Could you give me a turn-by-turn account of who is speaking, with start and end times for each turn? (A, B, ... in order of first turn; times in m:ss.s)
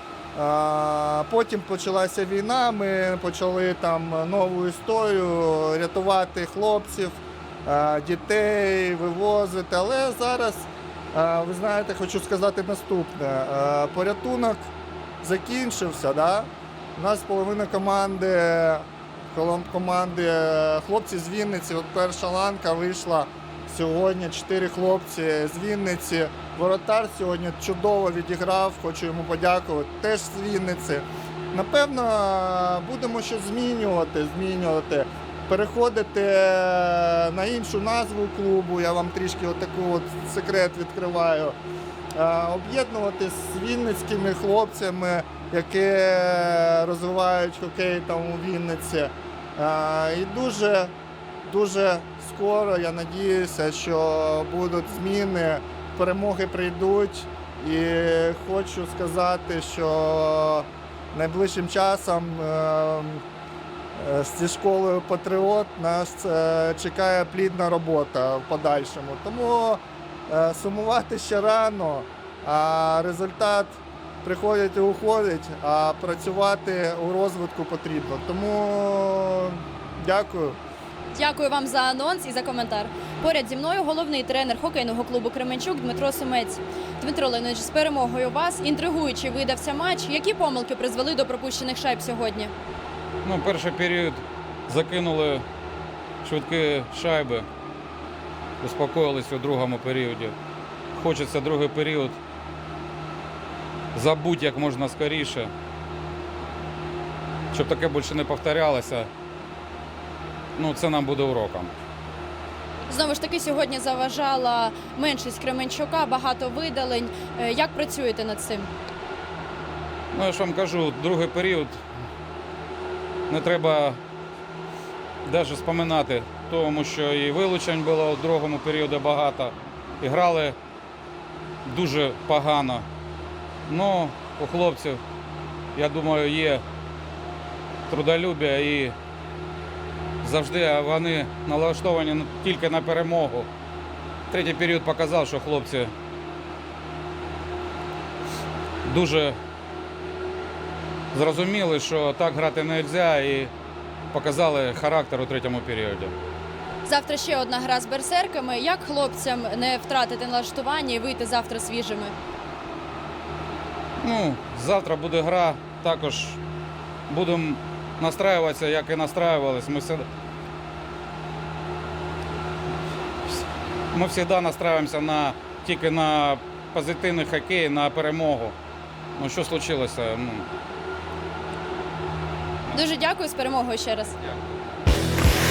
0:00.4-0:14.7 A
0:15.2-0:41.6 A
0:42.1-0:50.9 A
0:51.4-1:03.2 A
1:04.0-1:20.6 A
1:21.2-1:32.5 B
1:33.2-1:35.4 C
1:36.2-1:37.5 C
1:38.6-1:40.4 C
1:40.9-1:42.2 C
1:43.9-1:45.5 C
1:47.5-1:49.1 C
1:50.6-1:51.8 C
1:52.9-1:58.7 B
2:00.1-2:01.8 C
2:03.3-2:04.0 C
2:05.2-2:10.6 C
2:11.6-2:12.9 C
2:13.7-2:15.0 C
2:15.8-2:16.6 C
2:17.9-2:19.0 C
2:20.2-2:23.5 C
2:24.3-2:25.9 C
2:28.8-2:29.4 C
2:31.1-2:33.5 C
2:34.1-2:36.2 C
2:36.8-2:42.1 B
2:44.0-2:46.4 C
2:47.1-2:50.1 C
2:53.9-2:58.6 C
2:59.2-3:00.5 C
3:02.7-3:04.2 B